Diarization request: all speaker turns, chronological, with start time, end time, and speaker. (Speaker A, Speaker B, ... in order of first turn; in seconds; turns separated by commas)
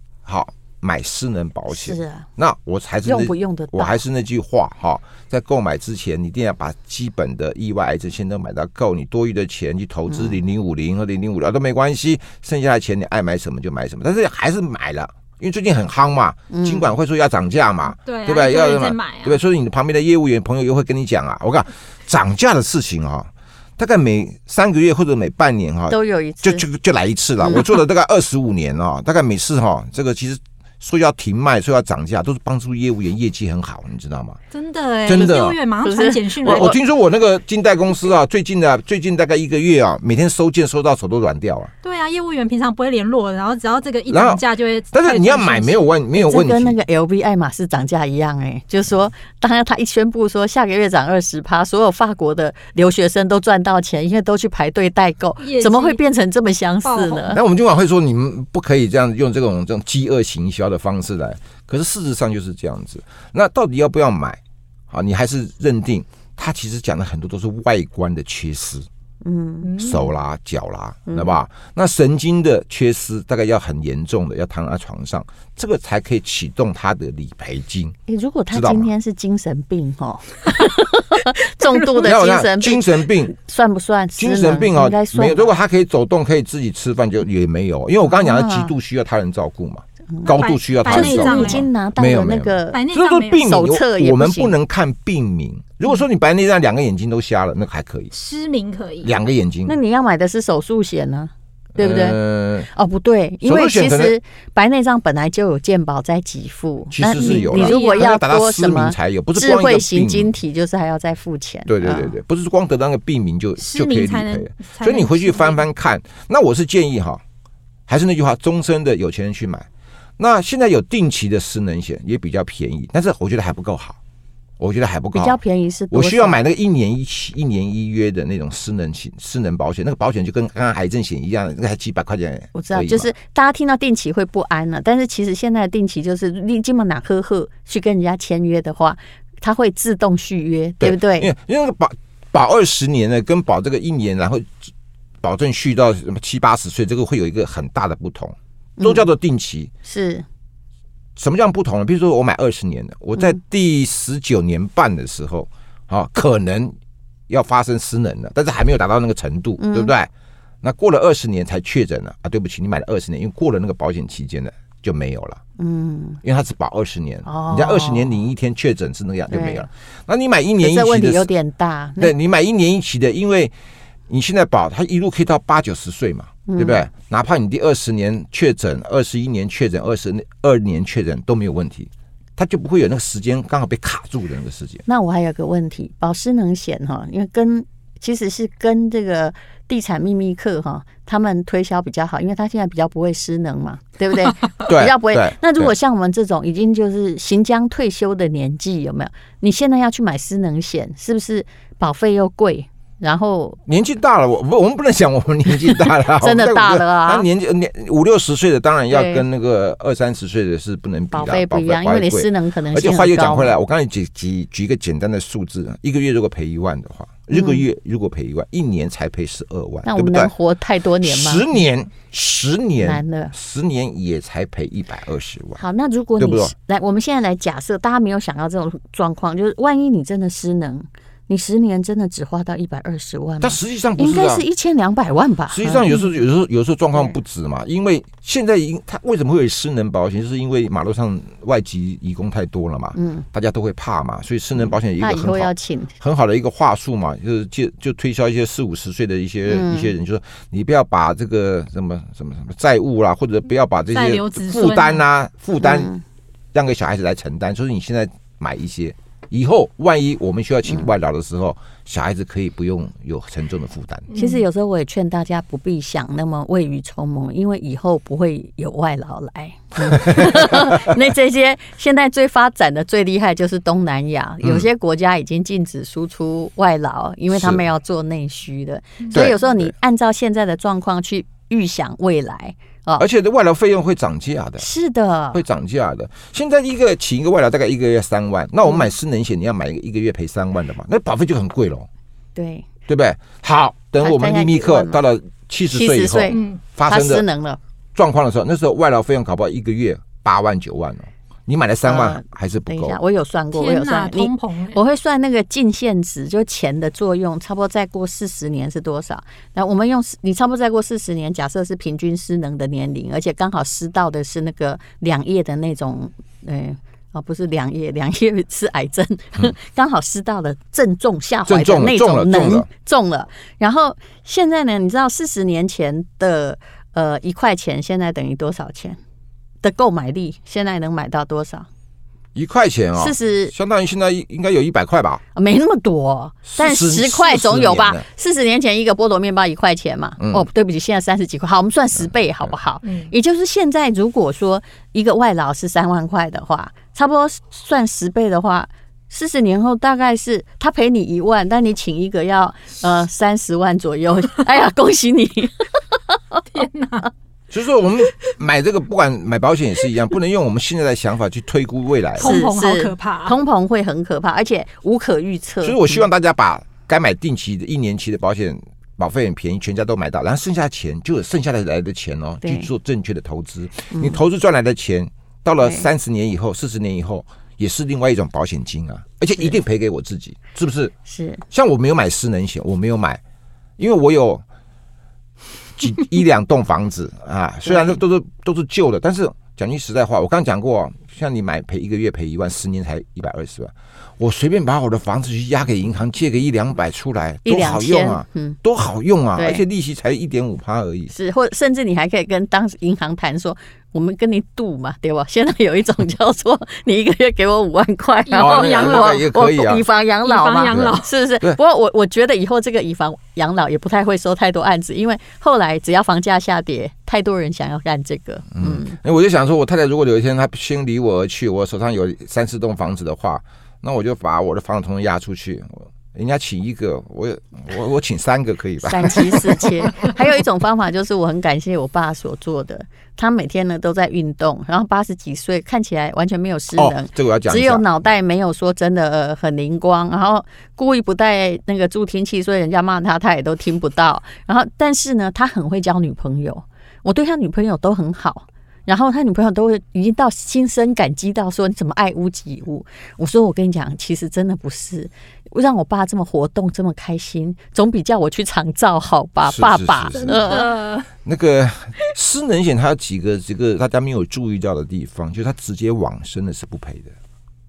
Speaker A: 0.2-34.4, Speaker B: 1.7-2.3, Speaker B: 3.0-4.0, Speaker B: 10.1-10.4, Speaker B: 16.5-16.9, Speaker C: 18.0-19.4, Speaker B: 25.9-26.6, Speaker B: 27.4-27.7, Speaker C: 34.5-36.7, Speaker A: 35.1-35.6, Speaker B: 35.8-36.8, Speaker A: 36.5-41.7, Speaker C: 41.8-45.8, Speaker A: 44.1-46.8, Speaker B: 46.2-57.4, Speaker C: 55.4-56.0, Speaker C: 56.8-57.4, Speaker A: 57.3-68.9, Speaker B: 69.2-69.7, Speaker C: 69.6-70.1, Speaker A: 69.8-78.0, Speaker B: 71.1-71.3, Speaker B: 78.1-85.6, Speaker A: 78.5-78.9, Speaker A: 82.0-83.3, Speaker A: 84.2-98.1, Speaker B: 88.1-88.7, Speaker B: 90.1-94.6, Speaker C: 90.3-91.7, Speaker C: 92.7-93.5, Speaker C: 98.1-99.1, Speaker A: 99.0-99.8, Speaker B: 99.7-102.2, Speaker A: 101.8-102.7, Speaker B: 102.7-112.2, Speaker A: 103.4-104.2, Speaker A: 106.9-110.3, Speaker C: 107.2-108.1, Speaker A: 111.7-117.2, Speaker C: 113.6-115.6, Speaker A: 117.9-124.0, Speaker A: 124.6-125.4, Speaker B: 125.1-126.4, Speaker A: 125.9-133.1, Speaker B: 132.5-141.3, Speaker A: 140.8-144.6, Speaker A: 145.2-149.7, Speaker B: 148.8-149.1, Speaker B: 149.8-150.2, Speaker A: 151.2-156.8, Speaker A: 157.3-160.1, Speaker B: 159.6-159.9, Speaker A: 160.6-165.4, Speaker B: 165.6-166.2, Speaker A: 166.2-171.3, Speaker B: 167.2-168.2, Speaker B: 169.3-169.7, Speaker B: 170.6-172.1, Speaker A: 172.0-173.5, Speaker A: 174.1-184.8, Speaker B: 176.5-176.8, Speaker B: 184.9-203.6, Speaker A: 194.7-195.7, Speaker A: 203.7-220.3, Speaker B: 205.6-207.3, Speaker B: 208.9-209.2, Speaker B: 211.1-213.6, Speaker B: 217.3-217.7, Speaker B: 219.8-221.5, Speaker A: 221.0-225.6, Speaker B: 222.8-223.3, Speaker B: 225.6-235.9, Speaker A: 226.2-226.5, Speaker A: 233.4-234.4, Speaker A: 235.5-255.9, Speaker B: 242.9-243.3, Speaker B: 244.7-246.0, Speaker B: 249.5-249.9, Speaker C: 253.9-255.0, Speaker B: 255.6-256.0, Speaker A: 256.5-264.1, Speaker C: 264.1-264.4, Speaker B: 264.2-283.1, Speaker A: 269.9-270.9, Speaker A: 274.4-274.7, Speaker A: 277.3-277.6, Speaker A: 279.1-279.7, Speaker A: 283.0-284.7, Speaker B: 284.6-285.4, Speaker A: 285.3-291.9, Speaker B: 292.4-292.7, Speaker A: 292.9-297.2, Speaker B: 294.0-295.0, Speaker B: 295.7-297.6, Speaker C: 296.3-296.6, Speaker A: 297.9-303.0, Speaker B: 301.9-329.0, Speaker C: 303.5-304.8, Speaker A: 321.5-322.7, Speaker B: 329.6-331.7, Speaker A: 332.4-335.2, Speaker B: 333.0-333.5, Speaker B: 335.4-356.4, Speaker A: 336.5-338.1, Speaker A: 340.2-340.5, Speaker C: 342.8-343.1, Speaker C: 356.5-357.1, Speaker A: 357.5-362.3, Speaker C: 362.2-363.4, Speaker B: 362.2-366.1, Speaker A: 365.6-380.9, Speaker B: 372.4-372.7, Speaker B: 373.9-374.2, Speaker B: 375.6-375.9, Speaker B: 381.1-381.4, Speaker A: 381.5-383.2, Speaker A: 383.8-384.4, Speaker A: 385.8-401.1, Speaker B: 387.7-388.0, Speaker B: 397.4-398.6, Speaker B: 399.4-399.6, Speaker B: 401.1-419.0, Speaker C: 408.3-409.2, Speaker A: 408.4-409.9, Speaker C: 410.2-411.1, Speaker A: 410.7-411.6, Speaker A: 418.5-430.1, Speaker B: 428.8-460.7, Speaker A: 436.7-437.9, Speaker A: 459.4-460.5, Speaker C: 460.2-461.1, Speaker A: 461.2-467.1